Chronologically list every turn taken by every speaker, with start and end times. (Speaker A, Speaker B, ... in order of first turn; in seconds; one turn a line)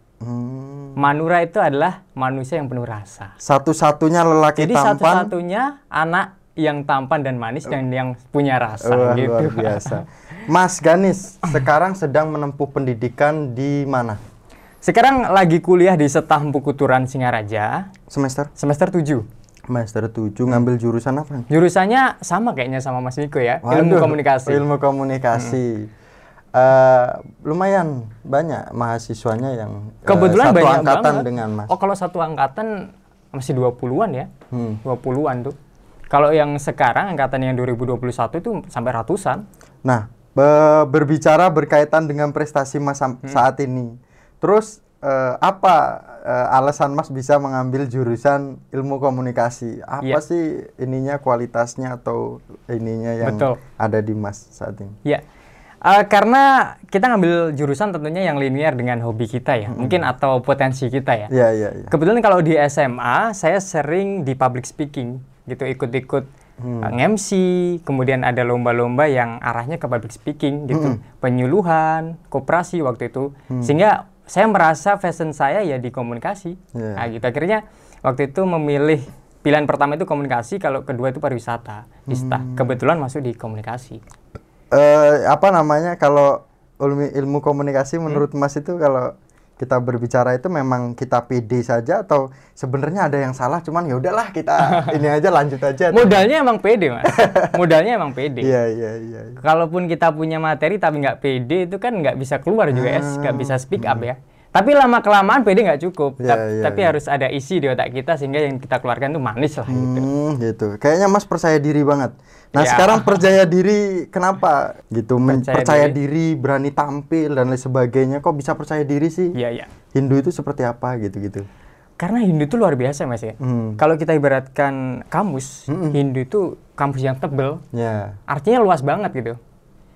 Speaker A: 0.2-1.0
Speaker B: 1.0-3.4
Speaker A: 3.4-5.3
Speaker B: 4.6-10.0
Speaker A: 8.8-14.2
Speaker B: 14.8-17.9
Speaker A: 18.1-18.5
Speaker B: 18.6-19.2
Speaker A: 19.7-21.5
Speaker B: 21.5-24.6
Speaker A: 23.6-25.9
Speaker A: 26.5-31.7
Speaker B: 30.1-32.7
Speaker B: 33.3-34.3
Speaker A: 34.5-34.8
Speaker B: 34.9-35.5
Speaker B: 36.1-39.4
Speaker A: 39.9-55.0
Speaker B: 53.2-53.6
Speaker B: 55.8-61.3
Speaker A: 59.7-60.1
Speaker A: 61.3-61.9
Speaker B: 61.9-66.3
Speaker A: 66.6-67.0
Speaker B: 66.8-84.0
Speaker A: 70.7-71.0
Speaker A: 73.5-73.8
Speaker A: 76.8-77.1
Speaker A: 82.1-82.8
Speaker A: 84.7-96.3
Speaker B: 95.9-98.5
Speaker A: 97.1-97.6
Speaker A: 98.4-99.4
Speaker B: 99.4-110.1
Speaker A: 102.7-104.1
Speaker A: 106.2-107.0
Speaker A: 109.7-119.3
Speaker B: 112.6-113.2
Speaker B: 115.3-116.0
Speaker B: 119.3-119.7
Speaker A: 119.9-121.5
Speaker B: 122.0-127.6
Speaker A: 123.4-123.8
Speaker A: 125.7-126.0
Speaker A: 127.7-128.2
Speaker B: 128.3-129.4